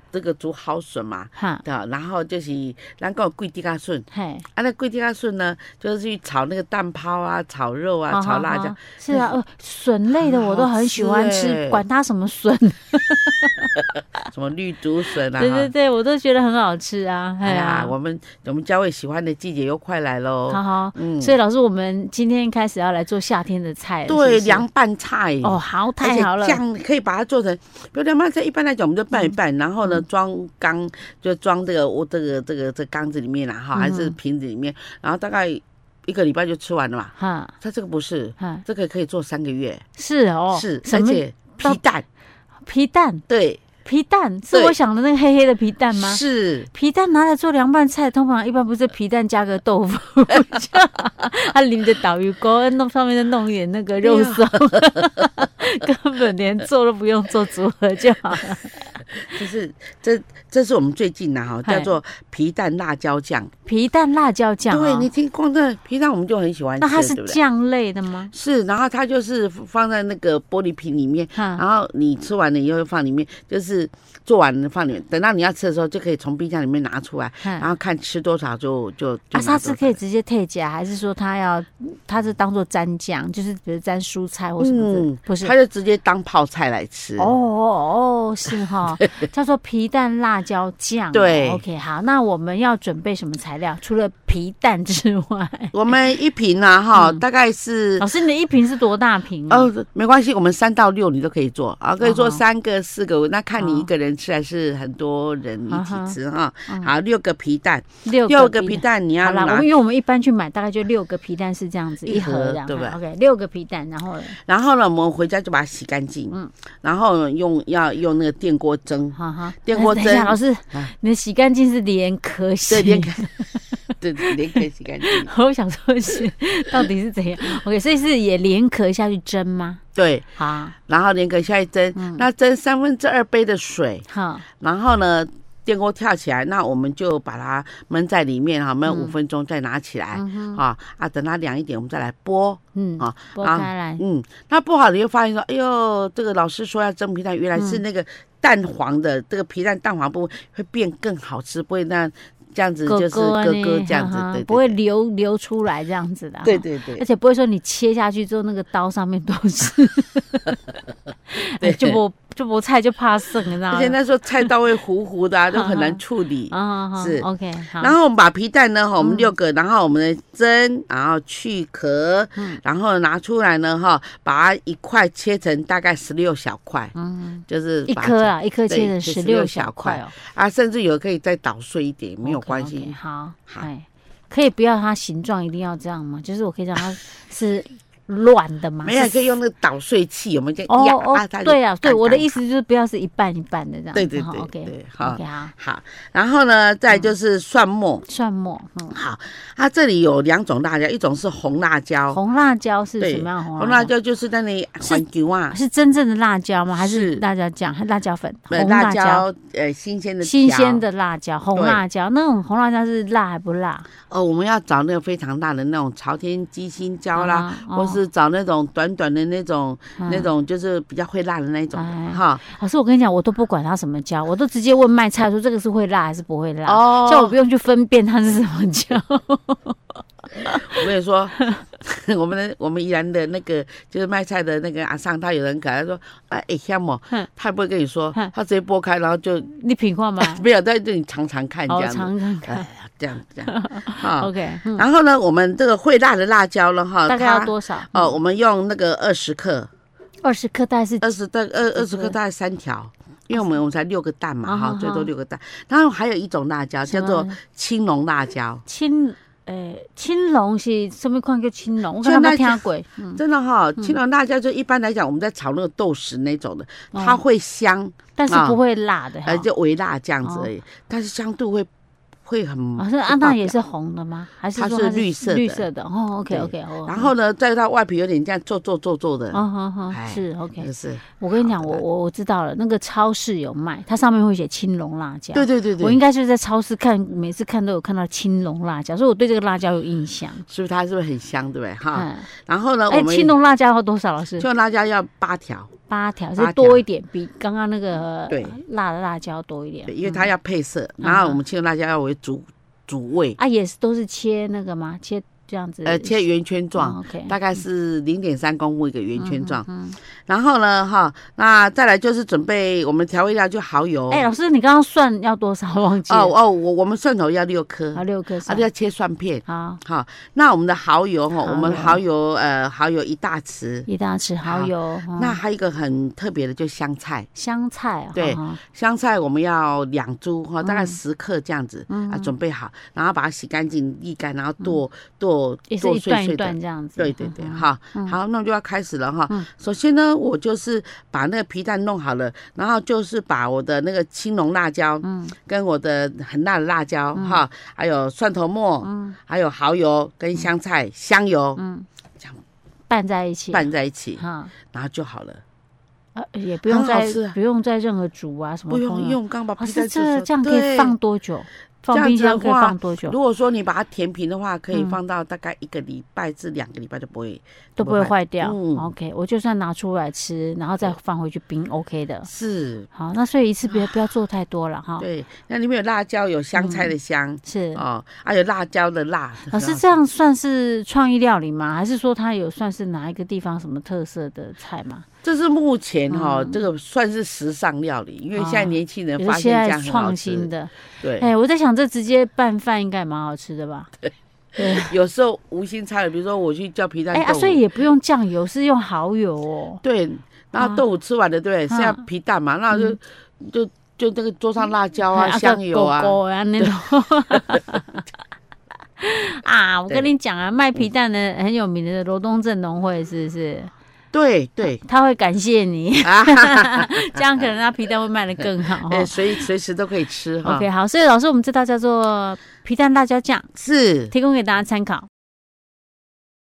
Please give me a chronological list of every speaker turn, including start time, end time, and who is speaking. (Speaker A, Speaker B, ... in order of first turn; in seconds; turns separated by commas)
Speaker A: 0.1-9.4, Speaker B: 1.4-1.6, Speaker B: 4.1-4.5, Speaker B: 8.1-13.7, Speaker A: 10.2-11.8, Speaker A: 14.3-15.7, Speaker B: 15.4-17.9, Speaker A: 17.4-21.3, Speaker B: 20.5-24.6, Speaker A: 24.1-39.9, Speaker B: 25.4-26.6, Speaker B: 33.7-34.2, Speaker B: 37.2-37.5, Speaker B: 40.0-41.8, Speaker A: 40.5-42.0, Speaker B: 42.7-43.2, Speaker A: 43.3-43.6, Speaker B: 43.9-46.2, Speaker A: 45.9-46.7, Speaker B: 46.7-58.8, Speaker A: 54.0-55.1, Speaker A: 59.1-63.5, Speaker B: 61.6-61.9, Speaker B: 63.7-65.1, Speaker A: 64.7-67.4, Speaker B: 66.8-68.3, Speaker A: 68.3-80.0, Speaker B: 71.3-71.6, Speaker B: 79.3-85.5, Speaker A: 84.6-87.3, Speaker B: 87.2-95.9, Speaker A: 91.1-91.6, Speaker A: 95.7-98.1, Speaker B: 96.9-97.2, Speaker B: 98.0-99.7, Speaker A: 99.5-109.7, Speaker B: 102.0-102.4, Speaker B: 103.6-103.9, Speaker B: 105.7-106.2, Speaker B: 108.0-114.4, Speaker A: 112.0-113.0, Speaker A: 114.4-120.9, Speaker B: 119.2-123.8, Speaker A: 122.7-123.3, Speaker A: 124.0-125.3, Speaker B: 124.3-129.8, Speaker A: 130.0-130.3, Speaker B: 130.4-130.8, Speaker A: 130.9-134.1, Speaker B: 132.0-132.2, Speaker B: 134.1-134.5, Speaker A: 134.6-154.8, Speaker B: 138.9-139.2, Speaker B: 140.2-140.6, Speaker B: 142.8-144.0, Speaker B: 152.9-160.6, Speaker A: 156.4-157.0, Speaker B: 161.3-164.5, Speaker A: 161.6-162.0, Speaker A: 163.7-167.3, Speaker B: 165.5-167.9, Speaker A: 167.8-176.9, Speaker B: 169.0-169.3, Speaker B: 176.9-180.1, Speaker A: 177.5-182.9, Speaker B: 182.2-189.3, Speaker A: 188.8-192.3, Speaker B: 190.7-195.5, Speaker A: 193.9-198.0, Speaker B: 198.1-199.0, Speaker A: 198.9-202.2, Speaker B: 202.1-203.9, Speaker A: 203.0-205.6, Speaker B: 204.8-209.2, Speaker A: 206.8-207.2, Speaker A: 208.5-210.8, Speaker B: 210.2-213.9, Speaker A: 211.6-211.8, Speaker A: 214.1-222.4, Speaker B: 217.2-218.0, Speaker B: 220.0-220.3, Speaker B: 221.8-230.8, Speaker A: 226.7-227.3, Speaker A: 230.4-239.5, Speaker B: 239.5-240.4, Speaker A: 240.2-249.7, Speaker B: 241.7-242.7, Speaker B: 243.5-244.8, Speaker B: 247.1-248.2, Speaker B: 250.2-251.1, Speaker A: 251.0-258.6, Speaker B: 251.8-252.2, Speaker B: 253.3-253.6, Speaker B: 254.4-255.1, Speaker B: 256.9-257.4, Speaker B: 258.7-263.2, Speaker A: 262.0-262.6, Speaker A: 263.2-268.6, Speaker B: 266.9-267.2, Speaker B: 268.2-269.5, Speaker A: 269.2-271.7, Speaker A: 272.3-273.6, Speaker B: 272.8-277.1, Speaker A: 274.6-275.6, Speaker A: 276.3-281.8, Speaker B: 279.3-290.4, Speaker A: 285.3-286.0, Speaker A: 290.5-293.3, Speaker B: 291.9-292.3, Speaker B: 292.9-294.5, Speaker A: 294.4-295.7, Speaker B: 295.9-300.3, Speaker A: 296.4-296.8, Speaker A: 298.3-298.6, Speaker A: 299.9-303.4, Speaker B: 301.0-301.4, Speaker B: 303.4-306.2, Speaker A: 305.9-309.6, Speaker B: 306.8-307.4, Speaker B: 309.2-310.0, Speaker A: 310.3-314.3, Speaker B: 314.1-316.3, Speaker A: 316.1-323.9, Speaker B: 317.9-318.7, Speaker B: 319.5-319.8, Speaker B: 321.4-322.0, Speaker B: 323.9-325.4, Speaker A: 324.4-327.3, Speaker B: 327.4-328.6, Speaker A: 328.1-351.6, Speaker B: 330.6-331.0, Speaker B: 331.9-332.3, Speaker B: 335.7-338.2, Speaker B: 345.0-345.3, Speaker B: 347.1-347.4, Speaker B: 348.8-349.2, Speaker B: 351.6-351.9, Speaker B: 352.9-354.5, Speaker A: 353.5-355.4, Speaker B: 356.1-363.2, Speaker A: 356.7-357.4, Speaker A: 358.7-360.9, Speaker A: 361.9-368.9, Speaker B: 367.8-372.3, Speaker A: 372.3-372.9, Speaker B: 372.9-375.1, Speaker A: 375.0-380.0, Speaker B: 376.6-376.9, Speaker B: 377.4-377.8, Speaker B: 379.5-385.1, Speaker A: 385.2-391.3, Speaker B: 386.1-386.6, Speaker B: 388.4-393.9, Speaker B: 394.6-394.9, Speaker A: 394.6-397.6, Speaker B: 397.1-399.8, Speaker A: 399.8-406.7, Speaker B: 400.6-400.8, Speaker B: 401.7-402.0, Speaker B: 402.7-403.0, Speaker B: 405.1-408.0, Speaker A: 407.3-407.6, Speaker B: 409.0-413.7, Speaker A: 414.1-414.8, Speaker B: 414.8-419.4, Speaker A: 416.0-417.2, Speaker A: 418.8-420.7, Speaker B: 420.4-423.5, Speaker A: 423.6-424.1, Speaker B: 424.1-425.1